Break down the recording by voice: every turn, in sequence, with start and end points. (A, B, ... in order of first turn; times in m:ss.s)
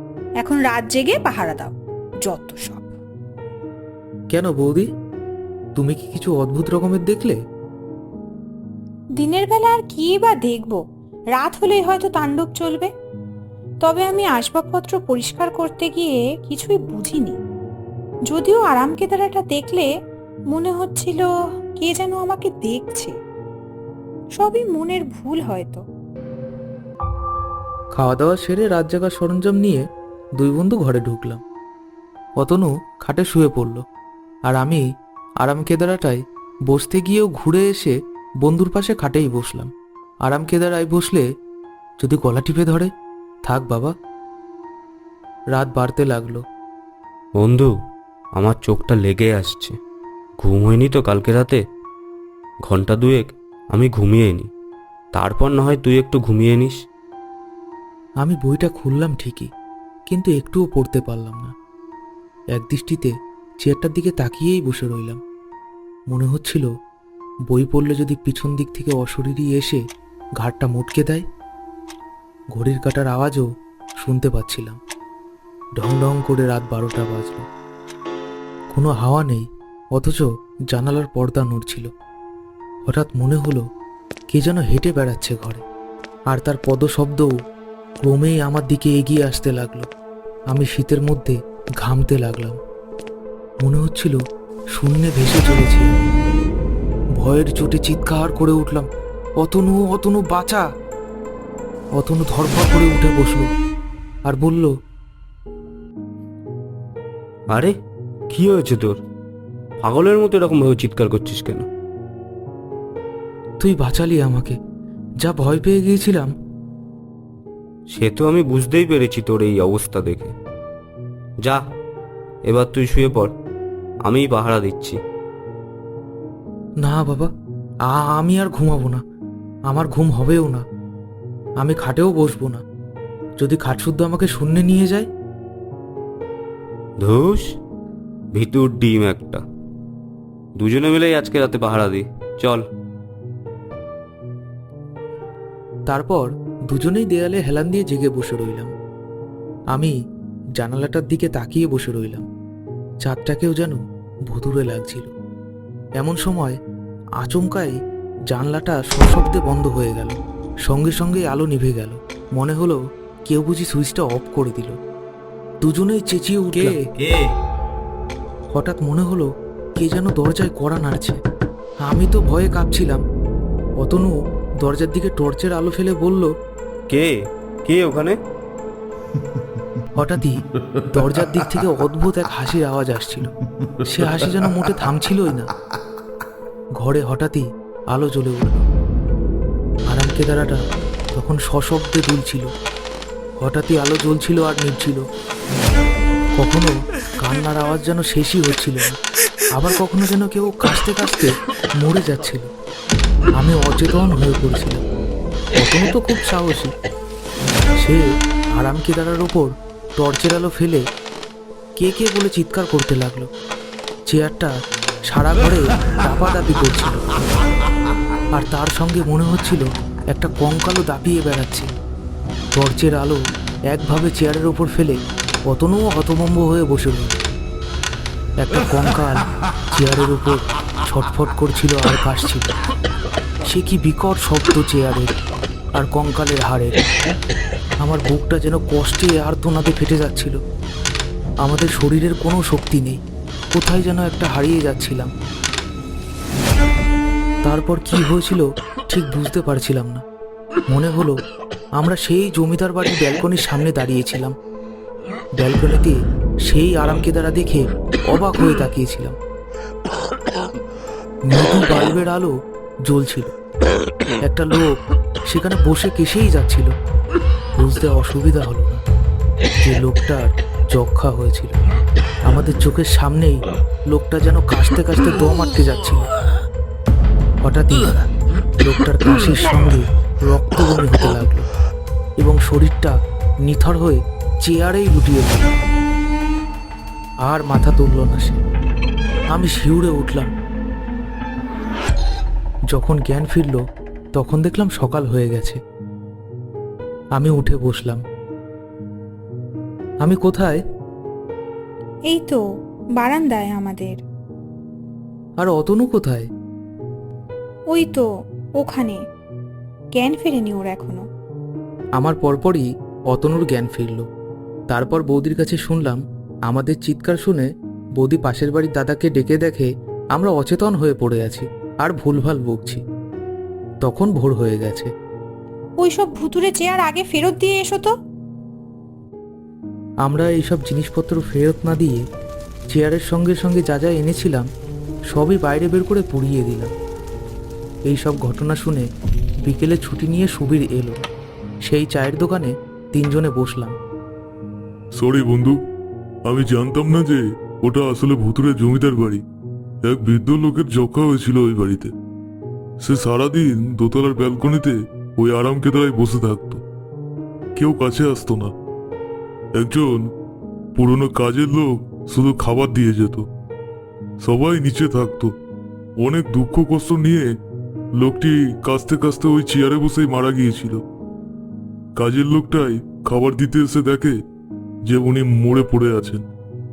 0:00.4-0:02.9 A
0:04.3-0:04.9 B
0:05.8-0:07.4 B
0:09.2-0:10.8 A
0:11.4-0:12.9 A
0:13.8-0:17.4 A
0:18.3-0:19.8 A
0:20.5-0:21.2 A
0:21.8-0:23.1 A
0:24.4-0:25.8 A
0:28.0-0:29.8 B
0:30.4-0:31.4 B
0:32.4-0:33.8 B
0:34.5-0:34.8 B
0:35.4-0:39.7 B
0:40.2-0:41.2 B
0:42.0-0:42.9 B
0:43.4-0:43.9 B
0:45.5-0:46.4 B
0:47.4-0:47.7 C
0:48.4-0:49.7 C
0:50.4-0:51.6 C
0:52.6-0:54.5 C
0:55.1-0:56.8 C
0:58.2-0:59.5 B
1:00.1-1:01.5 B
1:02.5-1:03.1 B
1:03.6-1:05.2 B
1:06.1-1:06.7 B
1:07.5-1:09.8 B
1:10.4-1:11.2 B
1:12.5-1:13.4 B
1:14.0-1:14.8 B
1:15.8-1:17.4 B
1:18.7-1:21.9 B
1:22.8-1:23.6 B
1:24.3-1:25.6 B
1:26.3-1:27.3 B
1:28.0-1:29.9 B
1:30.5-1:32.6 B
1:33.6-1:34.2 B
1:34.8-1:36.0 B
1:37.2-1:38.9 B
1:39.4-1:40.6 B
1:42.0-1:43.5 B
1:44.3-1:44.7 B
1:48.3-1:49.0 C
1:49.8-1:51.6 C
1:53.6-1:54.6 B
1:55.2-1:56.3 B
1:57.9-2:00.3 C
2:02.4-2:03.3 C
2:04.0-2:05.0 C
2:06.8-2:07.3 B
2:07.9-2:09.0 B
2:09.7-2:10.6 B
2:11.6-2:12.6 B
2:13.4-2:15.1 B
2:17.0-2:17.4 C
2:18.3-2:19.4 C
2:20.6-2:22.6 C
2:25.9-2:28.7 B
2:30.6-2:32.2 B
2:33.0-2:35.1 B
2:36.0-2:36.6 B
2:37.2-2:37.7 B
2:38.3-2:44.8 B
2:45.6-2:46.8 B
2:46.5-2:47.3 C
2:48.5-2:51.2 B
2:51.8-2:53.0 B
2:53.8-2:56.3 B
2:56.9-2:58.2 C
3:00.0-3:00.4 B
3:00.9-3:03.3 B
3:03.9-3:05.5 B
3:06.8-3:08.6 B
3:09.9-3:10.6 B
3:11.1-3:12.5 B
3:13.4-3:15.0 B
3:16.4-3:19.0 B
3:19.5-3:22.5 B
3:23.4-3:24.8 B
3:25.6-3:26.7 B
3:28.6-3:30.8 B
3:31.8-3:33.3 B
3:34.1-3:34.5 B
3:35.1-3:37.2 B
3:38.4-3:41.7 B
3:42.5-3:43.2 B
3:43.7-3:47.3 B
3:48.4-3:52.5 B
3:53.4-3:55.2 B
3:55.7-3:56.8 B
3:57.8-4:00.4 B
4:01.4-4:03.0 B
4:03.5-4:05.1 B
4:07.4-4:10.0 B
4:10.7-4:11.2 B
4:11.8-4:14.3 B
4:15.4-4:19.2 B
4:21.3-4:22.3 B
4:22.8-4:23.3 B
4:24.2-4:24.7 B
4:25.3-4:26.7 B
4:27.6-4:28.8 B
4:29.6-4:31.6 B
4:32.2-4:36.1 B
4:37.4-4:37.9 B
4:38.6-4:41.5 B
4:42.2-4:45.6 B
4:47.2-4:48.4 B
4:49.3-4:50.3 B
4:52.7-4:53.6 B
4:54.1-4:55.6 B
4:57.2-4:58.0 B
5:00.0-5:00.6 B
5:02.1-5:02.4 A
5:03.0-5:04.0 A
5:05.4-5:06.3 B
5:07.7-5:08.0 A
5:08.6-5:09.0 A
5:09.9-5:11.0 A
5:12.0-5:14.0 B
5:14.7-5:22.8 B
5:23.8-5:24.9 B
5:25.8-5:27.9 A
5:30.0-5:32.0 B
5:32.7-5:34.4 B
5:35.1-5:36.7 B
5:37.9-5:38.8 B
5:39.4-5:41.0 B
5:41.6-5:43.7 B
5:44.9-5:45.6 D
5:46.2-5:49.2 D
5:49.8-5:51.9 D
5:52.8-5:56.6 D
5:57.6-5:58.5 D
5:59.5-6:00.1 D
6:00.8-6:03.3 D
6:04.2-6:05.3 D
6:06.0-6:07.3 D
6:08.0-6:10.8 D
6:12.0-6:14.1 D
6:14.8-6:16.3 D